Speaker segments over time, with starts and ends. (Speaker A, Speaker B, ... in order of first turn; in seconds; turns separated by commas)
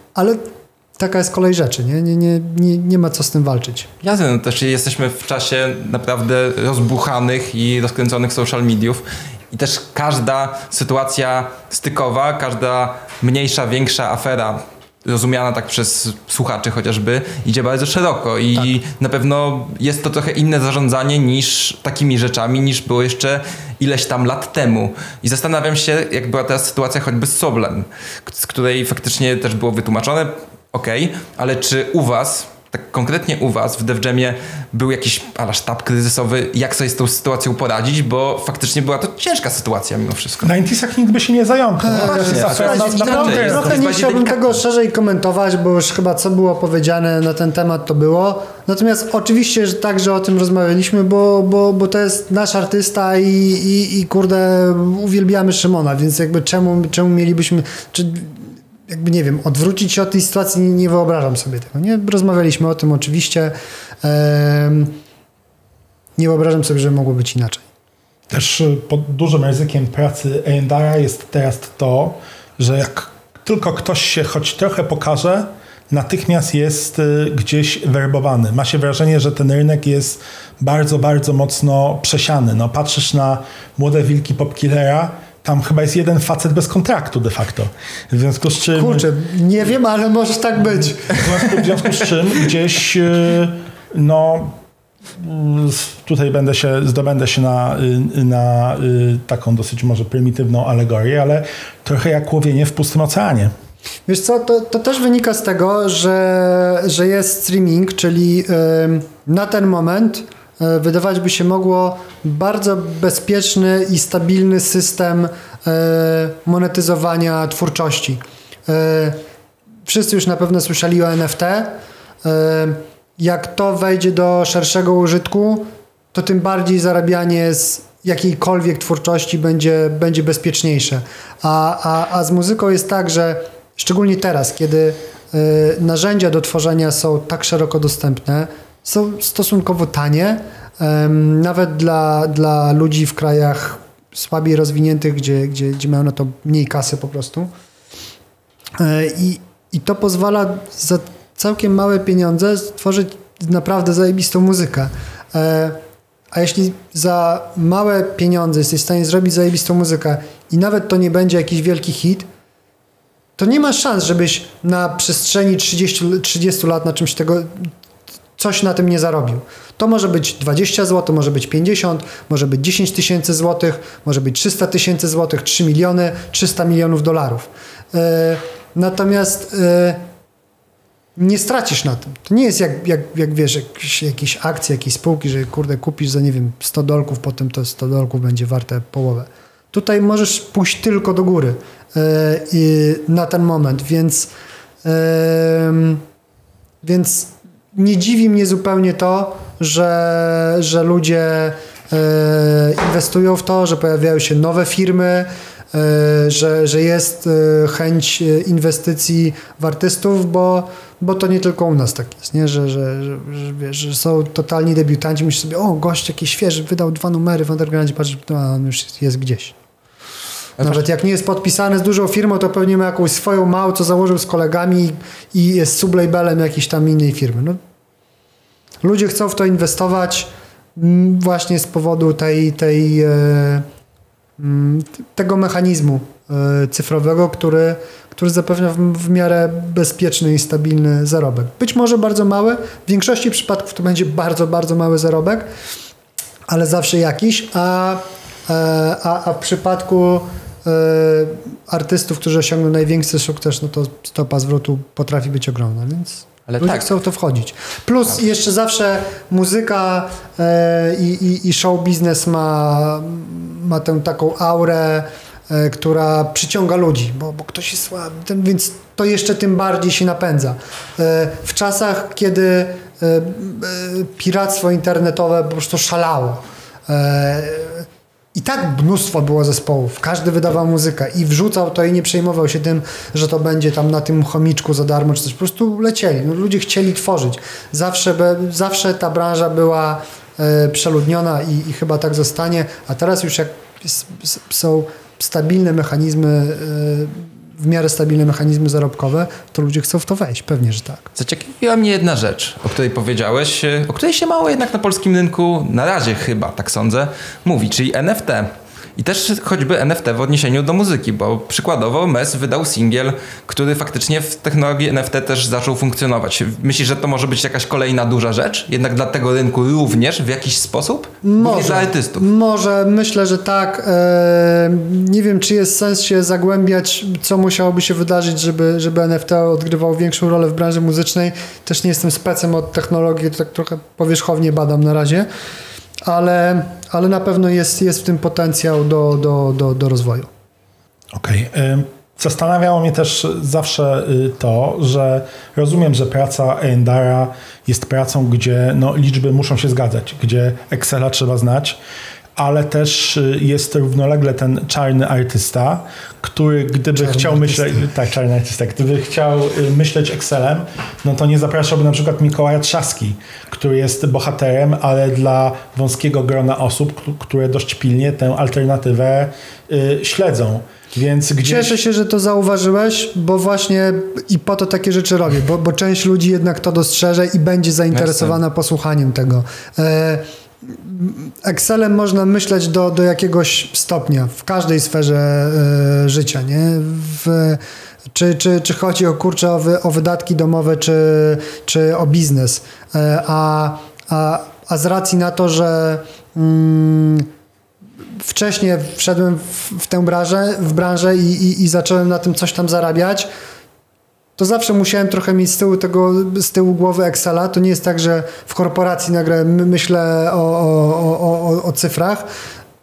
Speaker A: 0.1-3.9, Speaker B: 4.0-40.5, Speaker C: 40.4-43.9, Speaker A: 41.8-65.0, Speaker B: 42.0-44.6, Speaker A: 66.2-67.7, Speaker C: 68.3-89.0, Speaker A: 88.8-91.4, Speaker C: 91.1-94.6, Speaker C: 95.1-103.5, Speaker A: 104.1-119.2, Speaker A: 119.9-147.5, Speaker A: 148.8-155.8, Speaker A: 156.3-162.3, Speaker A: 163.4-167.7, Speaker A: 168.4-180.0, Speaker A: 181.2-194.3, Speaker A: 194.8-196.0, Speaker A: 196.8-219.6, Speaker A: 220.6-227.6, Speaker A: 228.8-233.7, Speaker A: 234.4-245.5, Speaker A: 246.5-301.1, Speaker B: 256.5-256.9, Speaker B: 301.1-322.2, Speaker A: 321.2-335.3, Speaker A: 336.0-340.3, Speaker C: 341.1-351.8, Speaker C: 352.4-371.8, Speaker A: 357.0-357.9, Speaker A: 371.4-387.6, Speaker B: 377.9-378.4, Speaker A: 388.1-397.3, Speaker A: 398.2-403.3, Speaker A: 404.4-412.3